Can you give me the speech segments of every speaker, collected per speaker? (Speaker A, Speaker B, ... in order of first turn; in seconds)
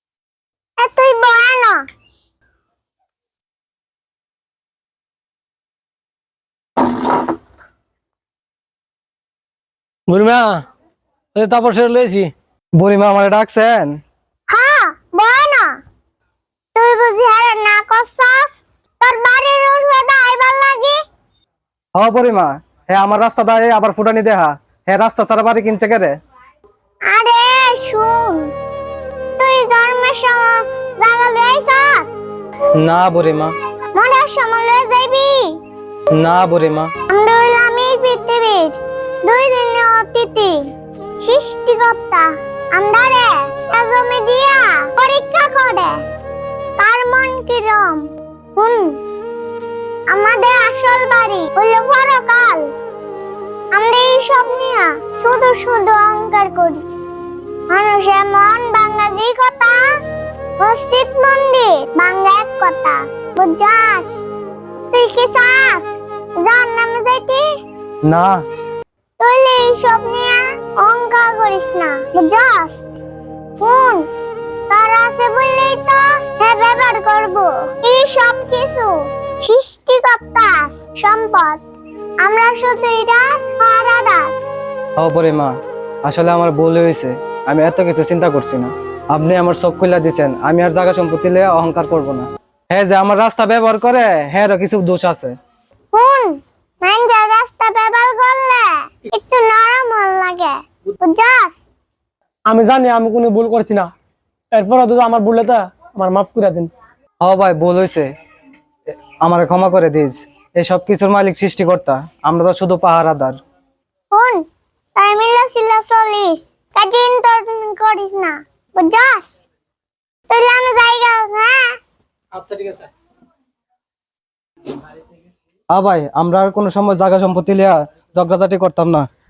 Speaker A: 0.8-1.8, 14.5-15.8, 16.7-21.0, 27.1-28.5, 29.4-32.0, 34.0-35.6, 37.1-46.0, 46.8-49.0, 50.1-52.7, 53.7-56.8, 57.7-59.8, 60.6-64.2, 64.9-67.4, 69.2-72.8, 73.6-74.0, 74.7-81.6, 82.2-84.3, 95.9-101.6, 114.1-114.4, 115.0-119.3, 120.3-121.7
Speaker B: 10.1-10.6, 11.3-12.3, 122.3-122.9
Speaker C: 12.8-14.0, 21.9-26.1, 32.8-33.5, 36.1-36.9, 68.0-68.4, 85.0-85.5, 86.0-95.3, 107.2-108.1, 109.1-113.4, 125.7-129.1
Speaker D: 102.5-103.9, 104.5-106.7